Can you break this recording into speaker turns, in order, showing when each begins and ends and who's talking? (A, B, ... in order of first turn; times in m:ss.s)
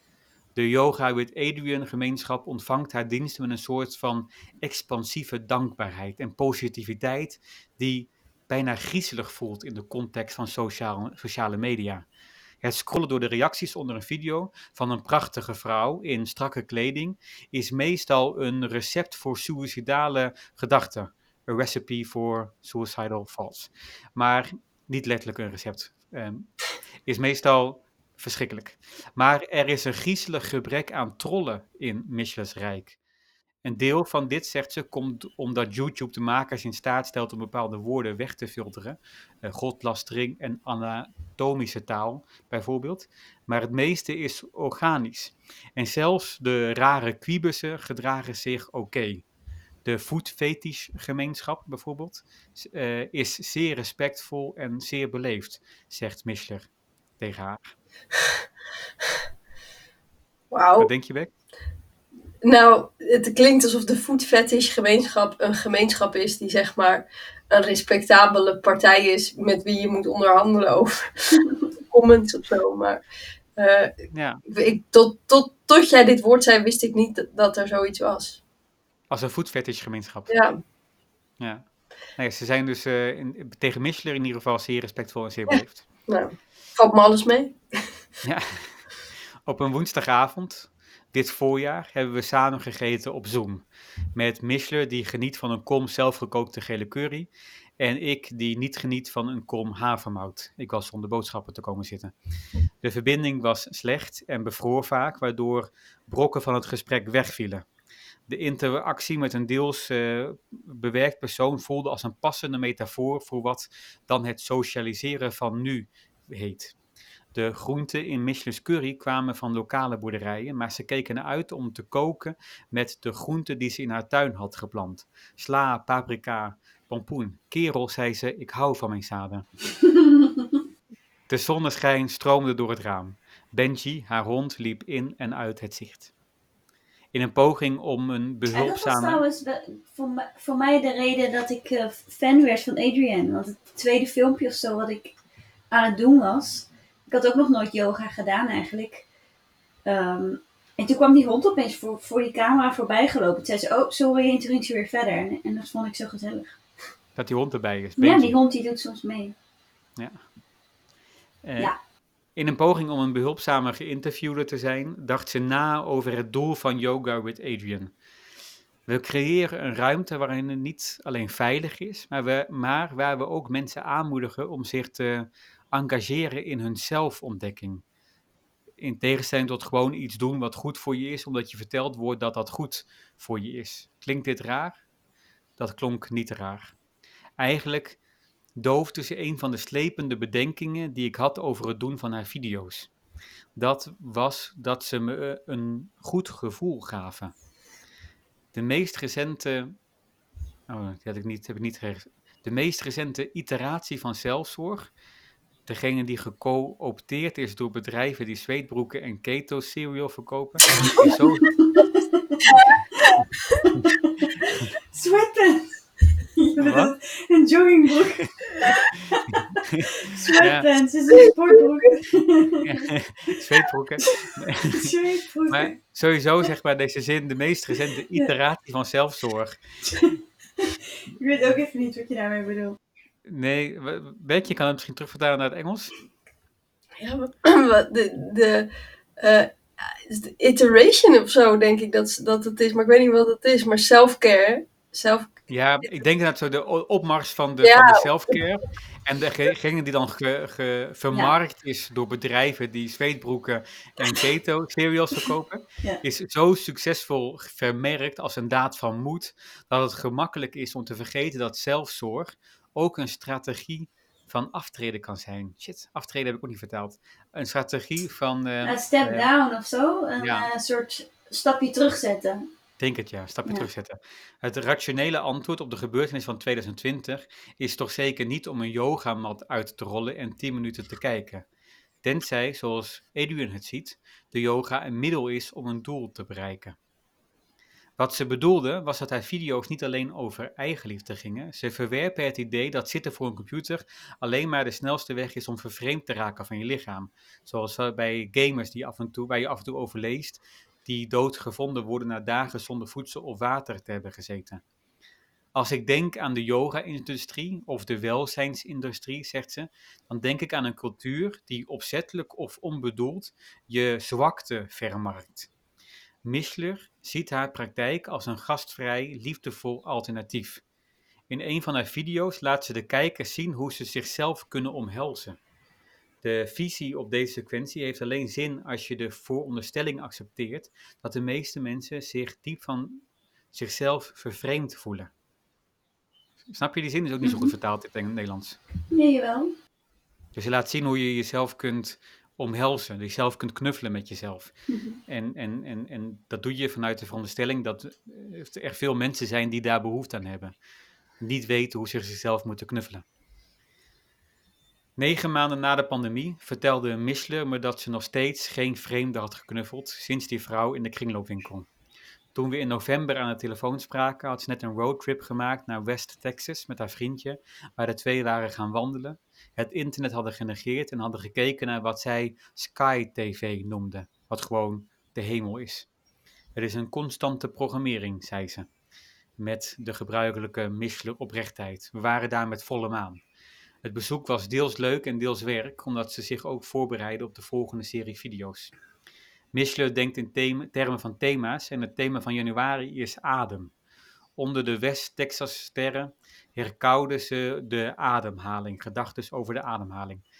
0:00.6-0:12.1 A
0:12.6-0:26.5 A
0:27.1-0:33.0 A
0:33.6-0:49.2 A
0:49.8-0:57.7 A
1:00.5-1:00.9 B
1:00.8-1:01.3 A
1:02.4-1:13.0 B
1:13.6-1:13.9 B
1:14.1-1:14.4 A
1:14.5-1:18.4 B
1:19.1-1:20.4 A
1:20.3-1:20.6 B
1:21.4-1:21.7 A
1:22.2-1:25.9 A
1:26.1-1:27.6 B
1:28.2-1:28.8 A
1:29.5-1:42.1 A
1:42.8-1:47.7 A
1:48.3-1:56.8 A
1:57.3-2:09.4 A
2:09.9-2:10.4 C
2:11.3-2:16.1 A
2:17.1-2:19.2 A
2:18.5-2:25.2 C
2:25.7-2:29.0 C
2:29.9-2:36.6 C
2:37.2-2:38.4 A
2:38.0-2:39.3 C
2:41.4-2:41.7 A
2:42.4-2:47.9 A
2:48.9-2:57.8 A
2:58.8-3:04.8 A
3:05.6-3:06.8 A
3:07.4-3:08.0 A
3:08.6-3:12.9 A
3:13.6-3:17.3 A
3:18.5-3:19.8 A
3:20.7-3:24.9 A
3:25.7-3:31.5 A
3:31.6-3:35.8 C
3:36.4-3:42.9 C
3:36.6-3:36.9 A
3:39.3-3:40.7 A
3:41.1-3:41.9 B
3:42.6-3:44.9 A
3:44.1-3:45.8 C
3:45.5-3:49.6 A
3:50.0-3:52.8 C
3:53.2-3:55.9 A
3:57.0-4:05.3 B
4:05.5-4:29.3 A
4:07.6-4:08.4 B
4:28.6-4:32.5 C
4:30.2-4:30.5 A
4:32.8-4:41.4 A
4:42.0-4:46.8 A
4:48.0-5:04.6 A
5:05.6-5:15.5 A
5:16.2-5:20.6 A
5:21.3-5:25.4 A
5:26.2-5:35.1 A
5:36.5-5:38.6 A
5:37.2-5:37.5 C
5:38.9-5:39.5 C
5:40.3-5:44.5 A
5:44.7-5:45.0 C
5:45.1-5:50.6 A
5:51.2-5:53.0 A
5:55.0-6:01.7 A
6:02.3-6:15.9 A
6:16.6-6:18.7 A
6:19.4-6:23.2 A
6:23.8-6:28.7 A
6:29.5-6:33.7 A
6:34.4-6:40.2 A